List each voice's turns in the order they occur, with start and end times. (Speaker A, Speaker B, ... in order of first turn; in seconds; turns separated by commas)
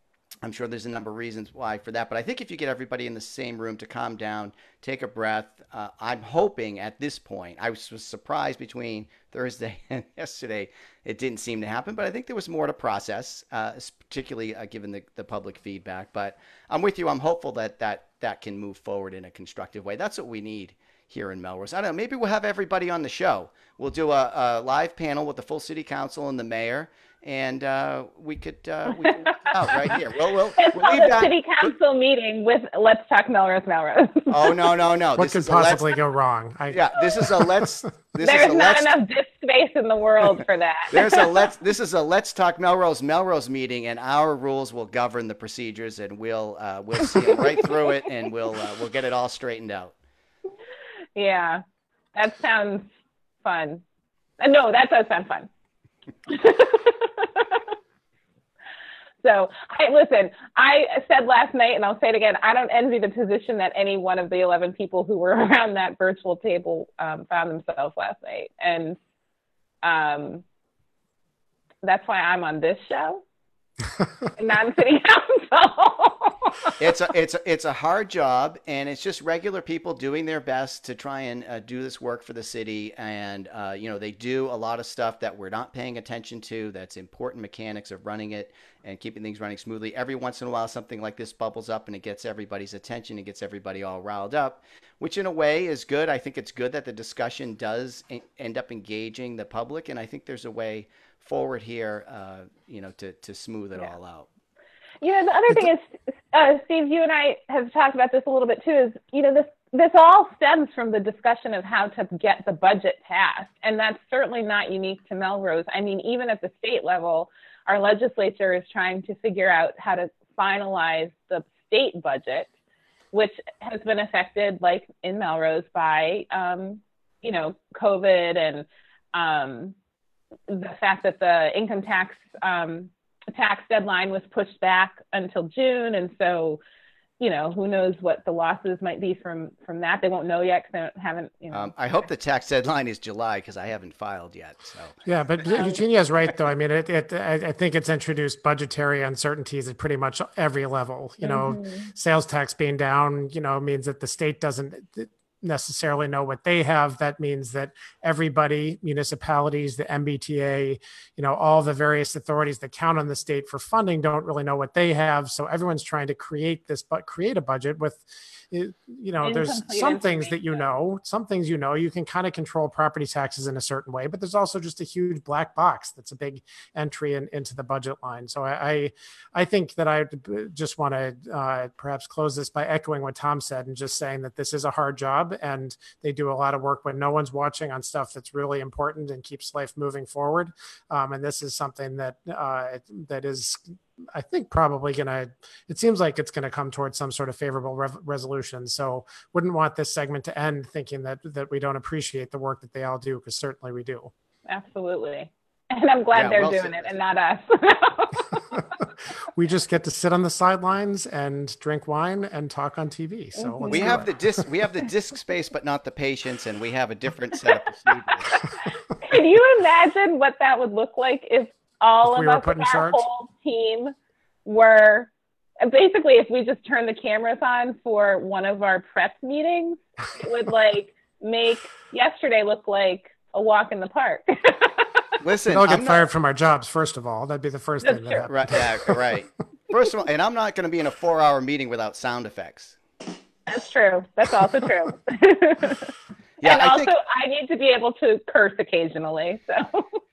Speaker A: 0.4-31.3, Speaker B: 28.9-30.0, Speaker B: 30.6-34.7, Speaker A: 34.3-35.9, Speaker C: 35.2-37.7, Speaker A: 36.7-39.0, Speaker B: 38.2-41.5, Speaker A: 40.9-49.9, Speaker B: 47.1-47.3, Speaker B: 51.2-51.6, Speaker B: 52.1-52.9, Speaker B: 53.4-53.8, Speaker B: 54.4-55.5, Speaker B: 56.3-57.7, Speaker B: 59.2-69.0, Speaker B: 69.8-70.4, Speaker B: 71.8-73.2, Speaker B: 74.4-76.8, Speaker A: 76.8-104.3, Speaker B: 105.0-122.5, Speaker B: 123.1-129.8, Speaker B: 130.5-136.6, Speaker B: 137.2-141.7, Speaker A: 141.5-145.0, Speaker C: 145.1-193.6, Speaker B: 145.5-145.8, Speaker B: 151.2-151.9, Speaker B: 169.2-170.6, Speaker C: 194.1-204.1, Speaker B: 204.5-208.7, Speaker A: 206.1-206.9, Speaker C: 208.8-214.1, Speaker B: 213.4-214.0, Speaker A: 213.7-218.4, Speaker B: 218.3-223.9, Speaker C: 222.0-223.0, Speaker B: 224.4-225.1, Speaker B: 225.6-235.2, Speaker A: 235.2-236.1, Speaker C: 235.5-239.0, Speaker B: 237.8-238.3, Speaker A: 238.3-242.8, Speaker B: 243.5-250.0, Speaker A: 246.4-246.9